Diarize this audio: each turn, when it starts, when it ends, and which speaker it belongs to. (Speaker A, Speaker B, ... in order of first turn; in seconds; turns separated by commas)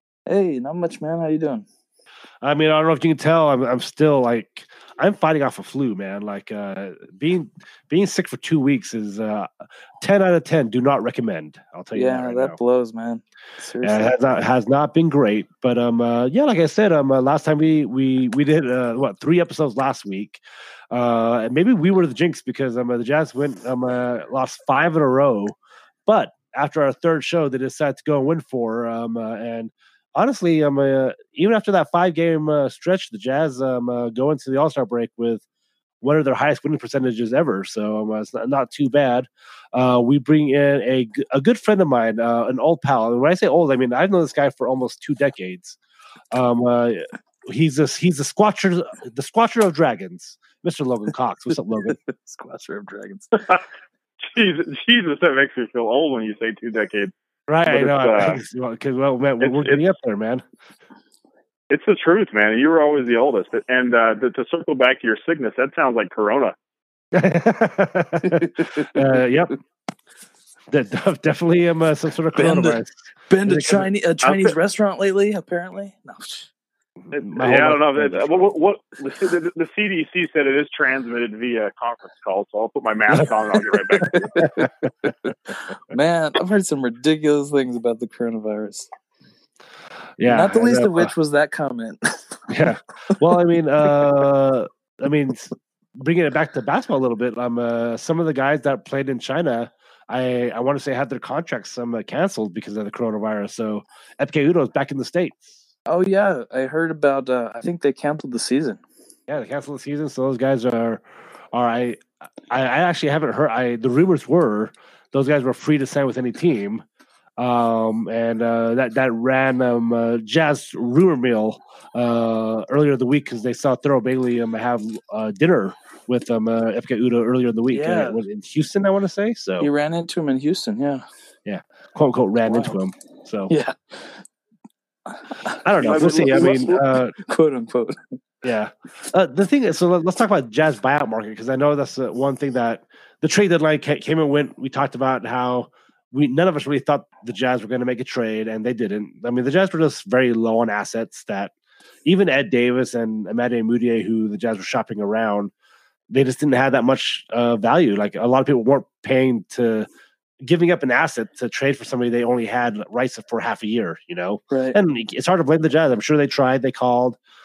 Speaker A: 0.3-1.7, Speaker B: 2.4-12.6, Speaker A: 11.9-14.2, Speaker B: 13.8-25.6, Speaker B: 26.1-35.4, Speaker B: 36.0-45.8, Speaker B: 46.3-52.0, Speaker A: 51.9-53.5, Speaker C: 54.3-57.1, Speaker B: 57.5-60.5, Speaker C: 57.7-58.4, Speaker C: 59.4-59.8, Speaker C: 61.7-66.5, Speaker B: 67.1-69.5, Speaker A: 68.3-69.5, Speaker B: 70.7-73.9, Speaker A: 72.4-76.5, Speaker C: 74.2-74.5, Speaker B: 77.1-78.5, Speaker C: 77.1-84.4, Speaker A: 84.0-85.3, Speaker B: 84.4-84.7, Speaker A: 85.9-88.9, Speaker B: 90.2-91.1, Speaker A: 90.2-93.2, Speaker B: 92.5-105.6, Speaker A: 105.9-108.8, Speaker B: 109.3-116.8, Speaker B: 117.4-129.7, Speaker A: 127.7-128.2, Speaker A: 129.6-131.0, Speaker B: 131.5-133.5, Speaker A: 132.5-132.8, Speaker A: 133.5-134.2, Speaker A: 135.1-138.1, Speaker B: 135.6-137.1, Speaker C: 135.8-136.8, Speaker B: 138.4-151.5, Speaker B: 152.1-155.5, Speaker B: 156.1-159.9, Speaker B: 160.4-167.2, Speaker A: 164.5-164.8